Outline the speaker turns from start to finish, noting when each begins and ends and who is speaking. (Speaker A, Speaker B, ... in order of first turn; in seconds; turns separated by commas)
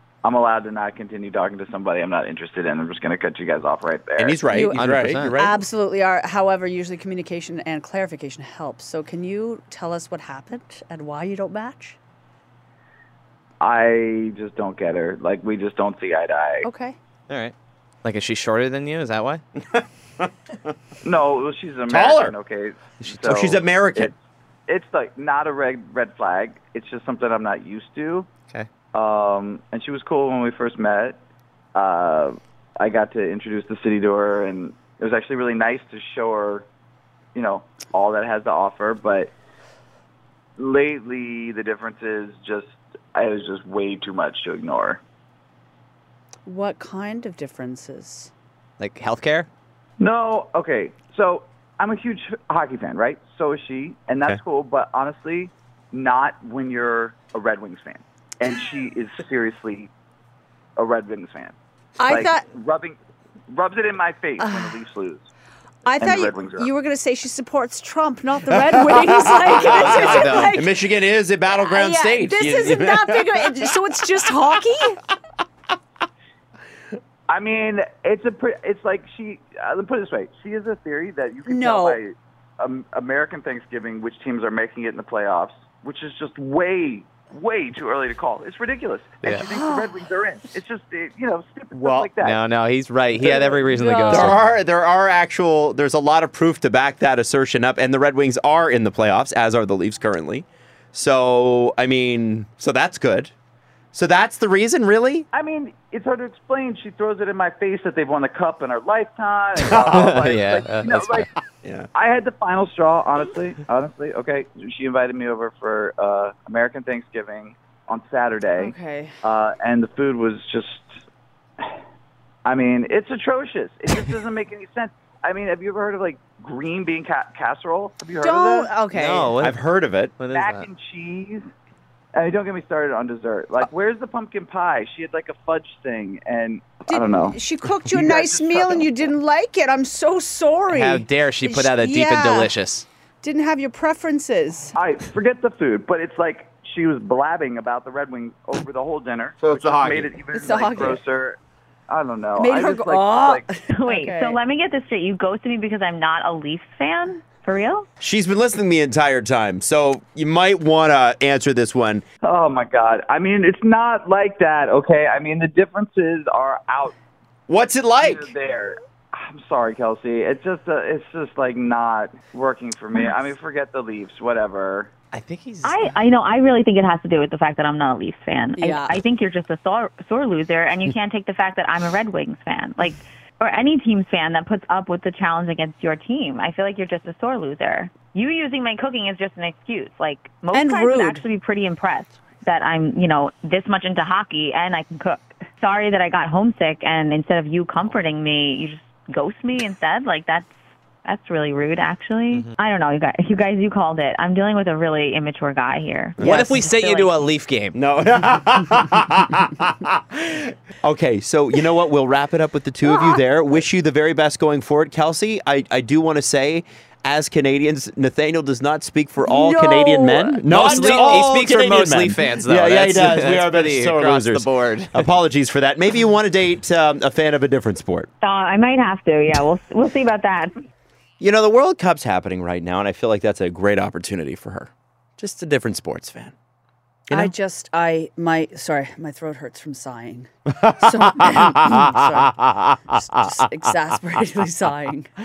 Speaker A: 0.2-4.5, Speaker B: 4.2-5.6, Speaker C: 4.5-12.0, Speaker D: 4.7-5.3, Speaker A: 13.6-16.7, Speaker C: 16.6-17.0, Speaker D: 17.3-19.4, Speaker B: 19.7-20.3, Speaker A: 21.0-24.1, Speaker B: 21.9-22.4, Speaker B: 23.0-24.1, Speaker A: 24.7-28.3, Speaker A: 28.9-31.2, Speaker A: 31.8-36.7, Speaker A: 37.4-39.3, Speaker A: 40.6-45.0, Speaker C: 46.5-48.3, Speaker D: 48.8-49.5, Speaker A: 50.0-59.9, Speaker A: 60.8-63.0, Speaker C: 62.0-62.5, Speaker A: 63.5-65.3, Speaker C: 64.4-64.8, Speaker C: 65.8-70.7, Speaker A: 66.0-66.7, Speaker B: 68.6-73.6, Speaker D: 69.6-70.6, Speaker C: 71.5-75.0, Speaker A: 77.3-92.4, Speaker C: 81.5-82.0, Speaker C: 89.5-90.0, Speaker B: 91.7-92.1, Speaker D: 92.2-94.4, Speaker A: 93.1-93.7, Speaker C: 93.7-94.4, Speaker B: 94.1-103.3, Speaker B: 103.9-105.3, Speaker A: 105.3-111.3, Speaker D: 109.6-111.3, Speaker B: 111.6-111.9, Speaker A: 111.9-121.0, Speaker C: 118.6-119.2, Speaker A: 122.5-128.7, Speaker C: 128.2-129.4, Speaker D: 128.9-129.6, Speaker B: 129.4-130.1, Speaker D: 130.2-130.7, Speaker A: 130.3-131.4, Speaker A: 132.2-137.4, Speaker C: 136.8-142.6, Speaker A: 137.9-138.9, Speaker D: 140.7-142.9, Speaker C: 143.2-144.8, Speaker A: 144.8-153.4, Speaker B: 149.4-150.1, Speaker C: 150.3-151.0, Speaker C: 152.3-154.4, Speaker E: 153.7-157.9, Speaker B: 158.0-162.1, Speaker A: 162.2-166.9, Speaker B: 167.5-168.3, Speaker A: 168.0-174.9, Speaker D: 175.1-175.9, Speaker E: 175.6-200.5, Speaker C: 178.6-179.0, Speaker C: 190.5-191.3, Speaker E: 201.0-207.1, Speaker B: 206.2-206.6, Speaker D: 206.2-207.8, Speaker B: 207.7-228.1, Speaker C: 212.8-213.1, Speaker C: 219.2-220.6, Speaker D: 220.5-225.0, Speaker E: 228.2-230.5, Speaker B: 231.2-236.3, Speaker C: 237.1-245.1